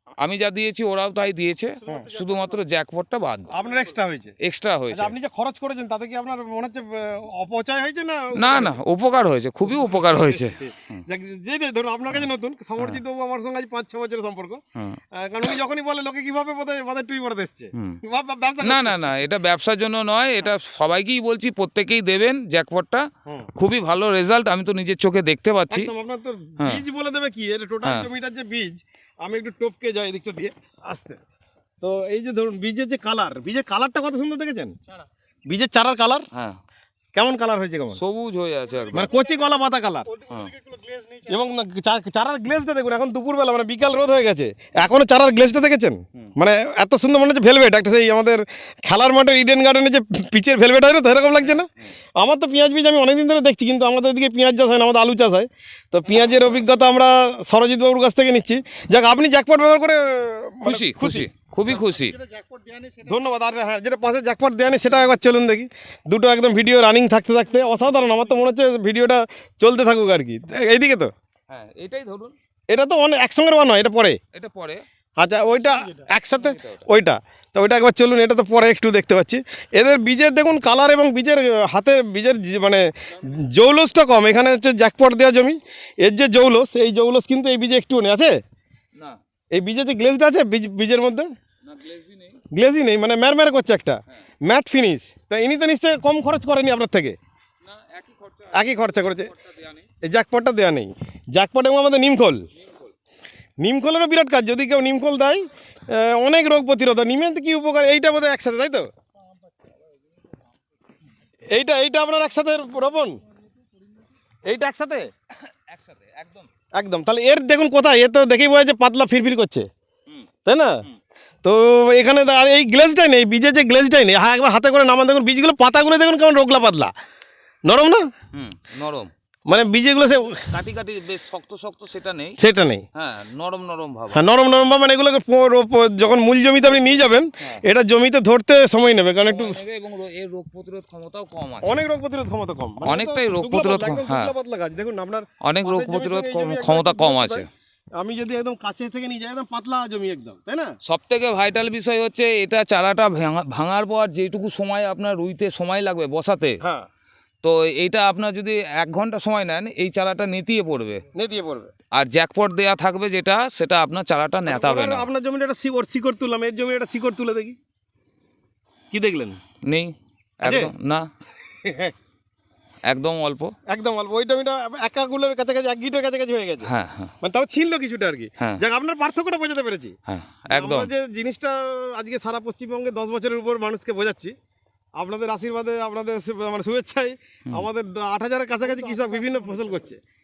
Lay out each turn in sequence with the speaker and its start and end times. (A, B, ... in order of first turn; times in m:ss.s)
0:00.2-0:03.6 A
0:01.9-0:02.1 B
0:01.9-0:02.3 C
0:03.5-0:04.4 B
0:04.4-0:05.1 A
0:04.9-0:08.8 B
0:08.4-0:11.0 A
0:09.8-0:14.6 B
0:15.2-0:19.0 B
0:18.6-0:25.9 A
0:25.7-0:31.2 B
0:27.8-0:28.1 A
0:31.8-0:34.8 B
0:35.5-0:36.3 B
0:37.2-0:38.0 B
0:37.9-0:39.1 A
0:38.9-0:40.1 B
0:40.2-0:41.3 C
0:41.2-1:01.3 B
1:00.6-1:02.2 A
1:02.3-1:03.1 C
1:03.0-1:11.1 B
1:11.5-1:12.4 A
1:12.7-1:14.2 B
1:14.3-1:14.8 A
1:15.2-1:28.4 B
1:16.3-1:16.9 A
1:29.5-1:31.3 B
1:31.6-1:32.4 A
1:32.5-1:37.2 B
1:37.6-1:39.8 A
1:38.5-1:39.3 B
1:40.0-1:42.5 B
1:42.6-1:42.9 A
1:43.6-1:48.9 B
1:51.5-1:53.2 B
1:54.5-1:55.1 B
1:55.4-1:56.5 A
1:56.8-1:59.7 B
2:00.4-2:00.8 B
2:01.4-2:06.9 B
2:07.7-2:08.1 B
2:08.3-2:09.1 A
2:09.5-2:10.5 B
2:10.5-2:12.4 A
2:12.4-2:12.8 B
2:13.0-2:14.2 A
2:14.1-2:19.6 B
2:19.3-2:21.8 A
2:21.6-2:27.4 B
2:22.8-2:24.3 A
2:25.4-2:27.5 A
2:28.0-2:30.8 B
2:30.8-2:36.6 A
2:36.6-2:36.9 B
2:37.4-2:41.0 A
2:41.2-2:41.7 B
2:41.9-2:45.1 A
2:44.5-2:47.6 B
2:48.9-2:49.4 B
2:49.6-2:51.1 A
2:50.4-2:50.7 B
2:51.6-2:51.9 B
2:52.9-2:53.6 A
2:53.7-2:56.7 B
2:56.6-2:57.1 A
2:57.2-3:00.0 B
3:00.1-3:00.9 A
3:00.5-3:04.3 B
3:05.0-3:10.0 B